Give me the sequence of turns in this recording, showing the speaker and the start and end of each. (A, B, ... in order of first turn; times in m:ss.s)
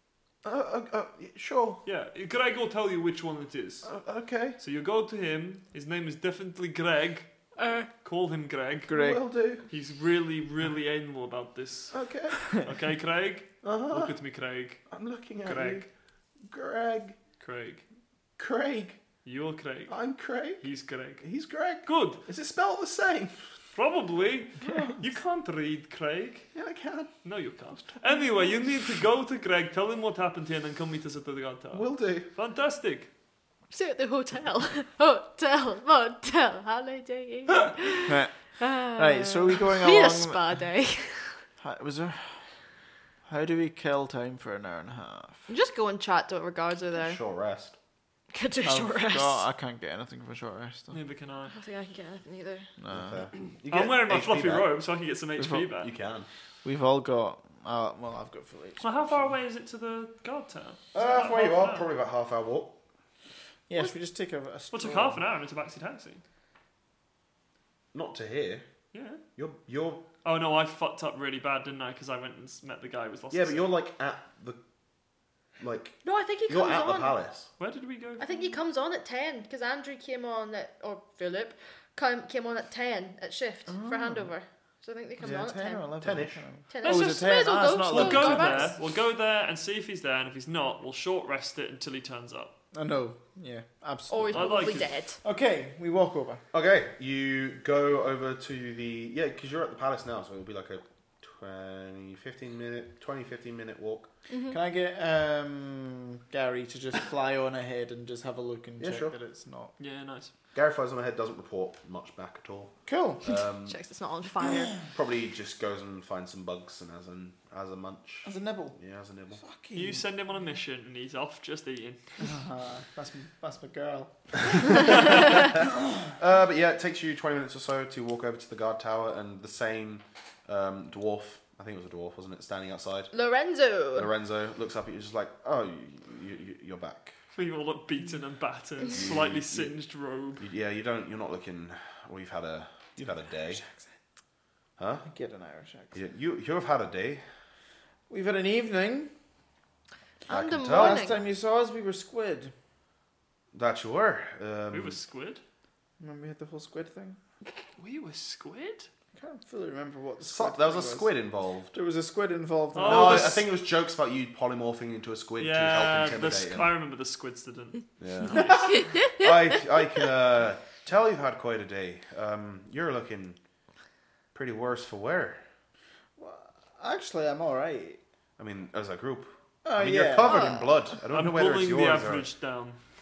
0:00.4-0:01.8 A
0:01.8-0:03.9 B
0:03.8-0:04.6 A
0:04.6-0:07.5 B
0:07.6-0:07.9 C
0:08.0-0:09.0 B
0:08.9-0:09.2 D
0:08.9-0:09.6 A
0:09.6-0:15.9 B
0:11.9-0:12.5 A
0:13.6-0:14.1 A
0:14.9-0:15.9 A
0:16.4-0:17.2 A
0:17.4-0:17.8 B
0:18.4-0:19.0 A
0:19.2-0:21.3 B
0:19.9-0:20.7 A
0:21.2-0:23.5 A
0:21.8-0:22.2 B
0:23.7-0:26.5 B
0:24.6-0:25.0 D
0:26.5-0:27.1 A
0:27.2-0:33.1 B
0:31.7-0:32.3 A
0:33.7-0:41.4 C
0:38.0-0:40.4 D
0:41.6-0:42.5 D
0:43.2-0:45.4 D
0:45.5-0:47.2 C
0:46.9-0:47.7 A
0:48.3-0:49.4 C
0:48.6-0:51.0 D
0:50.9-0:51.6 B
0:51.5-0:52.7 C
0:52.8-0:53.2 D
0:52.9-0:54.7 A
0:53.7-0:55.9 B
0:55.4-0:55.7 D
0:55.8-0:56.3 A
0:56.6-0:58.9 D
0:58.8-1:01.9 B
1:00.9-1:02.8 A
1:03.7-1:05.2 D
1:04.7-1:06.2 B
1:07.9-1:08.6 A
1:08.9-1:09.2 B
1:09.4-1:10.0 A
1:10.2-1:13.7 B
1:13.3-1:14.6 A
1:15.6-1:17.5 A
1:16.0-1:17.2 C
1:17.6-1:18.2 B
1:18.2-1:25.9 C
1:23.7-1:24.3 D
1:25.2-1:28.8 D
1:26.0-1:26.4 A
1:26.7-1:28.8 C
1:26.8-1:27.2 B
1:27.9-1:32.5 B
1:32.7-1:36.4 D
1:34.1-1:35.2 C
1:34.3-1:34.9 B
1:36.5-1:44.1 A
1:44.3-1:44.6 C
1:44.5-1:49.7 D
1:48.8-1:49.1 A
1:49.8-1:50.3 B
1:50.5-1:53.8 A
1:52.8-1:53.3 D
1:53.7-1:54.8 C
1:54.9-1:59.4 A
1:58.2-1:58.8 D
1:59.4-2:00.0 D
1:59.7-2:02.2 B
2:02.2-2:05.1 D
2:06.0-2:13.1 A
2:13.1-2:14.1 C
2:13.9-2:17.1 A
2:17.3-2:20.4 B
2:18.9-2:19.7 A
2:20.4-2:23.6 A
2:23.0-2:23.9 D
2:24.8-2:25.0 A
2:25.0-2:26.0 D
2:25.9-2:27.2 A
2:28.1-2:29.1 D
2:30.3-2:31.2 C
2:30.3-2:31.1 A
2:30.7-2:32.5 D
2:33.5-2:35.0 A
2:34.7-2:35.4 B
2:36.0-2:37.2 D
2:37.8-2:38.9 B
2:39.2-2:41.2 D
2:40.2-2:41.7 A
2:41.7-2:43.4 D
2:42.7-2:43.4 B
2:42.8-2:46.7 A
2:45.4-2:48.5 B
2:48.0-2:53.4 A
2:48.7-2:49.3 C
2:54.3-2:55.4 A
2:56.2-2:58.0 D
2:58.4-3:02.3 A
2:59.6-3:00.5 D
3:00.2-3:00.7 C
3:01.1-3:02.8 B